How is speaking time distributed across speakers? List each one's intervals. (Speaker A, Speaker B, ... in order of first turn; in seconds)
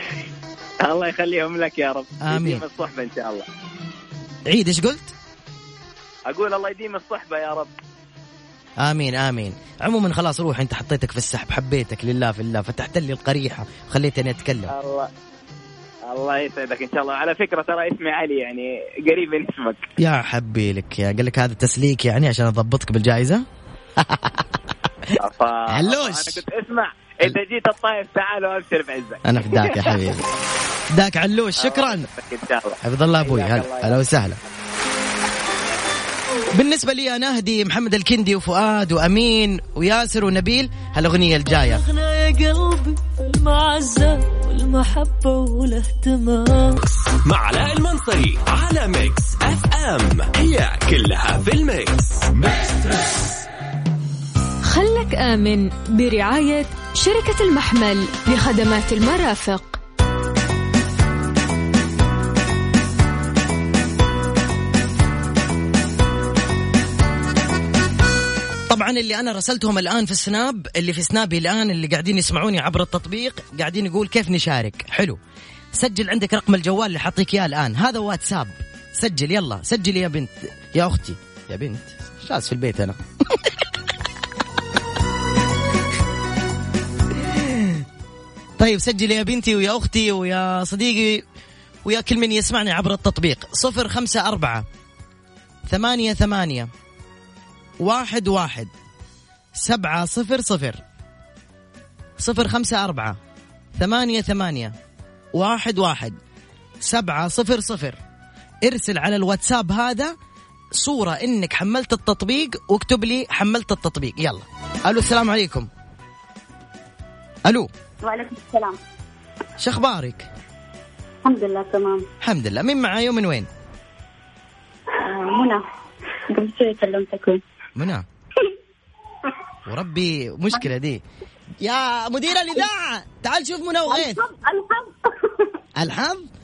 Speaker A: 0.8-3.5, 6.3-7.7, 14.7-15.1, 16.1-19.9, 25.1-30.0, 31.6-34.1
Speaker B: 2.2-2.6, 4.5-5.1, 8.8-14.7, 20.0-23.4, 24.0-24.5, 25.7-26.4, 29.2-30.3, 30.9-32.1, 32.8-34.4, 36.5-41.8, 68.7-75.2, 75.7-83.6, 87.2-87.8, 88.6-91.2, 91.8-94.7, 95.7-96.7, 97.8-98.7, 99.6-100.8, 102.2-103.2, 103.8-104.7, 105.3-106.2, 106.8-108.0, 108.6-110.1, 110.8-115.7, 119.6-120.2, 122.2-123.5, 127.8-128.0, 129.7-131.0, 131.6-134.2, 135.8-136.2
Speaker C: 41.5-46.8
Speaker D: 46.9-53.1
Speaker E: 54.6-59.8
Speaker F: 118.0-118.8, 121.2-122.1, 125.0-125.6, 126.3-127.4, 133.9-135.5